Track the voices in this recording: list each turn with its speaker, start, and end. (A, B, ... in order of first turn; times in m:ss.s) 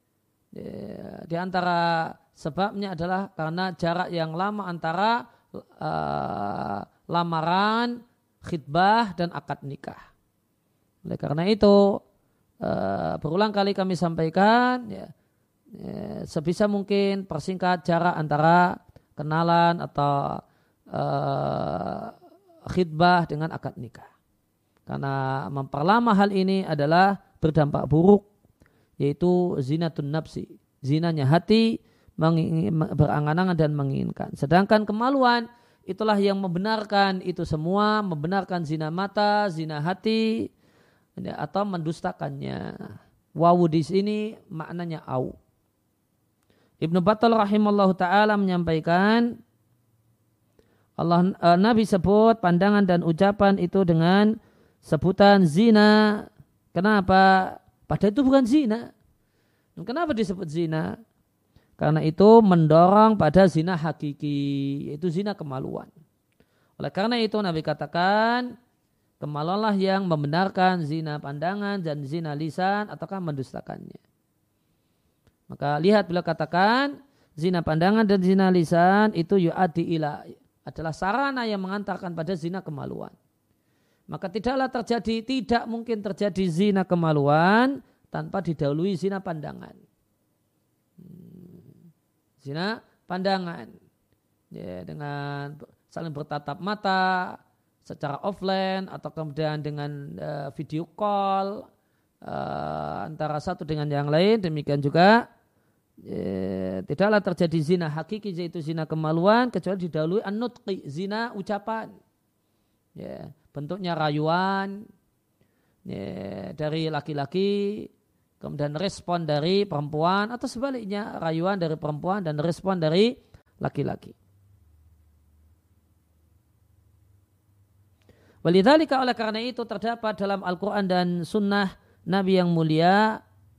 0:00.5-0:10.0 A
0:11.0-0:12.0 A
0:12.6-0:15.1 A
0:15.7-0:20.4 A
0:20.9-0:22.1 A
0:22.7-0:24.1 A
0:24.9-0:28.3 A
0:29.0-0:40.5 A
0:41.2-0:45.4 A
0:46.8-0:49.4 A
0:51.0-0:58.9 A
0:59.8-1:01.0 A
1:01.8-1:05.9 A
1:06.8-1:08.5 A
1:09.2-1:14.0 A
1:15.5-1:23.2 A
1:24.1-1:29.8 A
1:31.0-1:31.7 A
1:32.4-1:33.7 A
1:34.5-1:41.7 A
1:42.2-1:45.2 A
1:46.0-1:52.0 A
1:53.0-1:54.9 A
1:55.8-1:57.9 A
1:58.4-2:04.2 A
2:08.4-2:13.2 A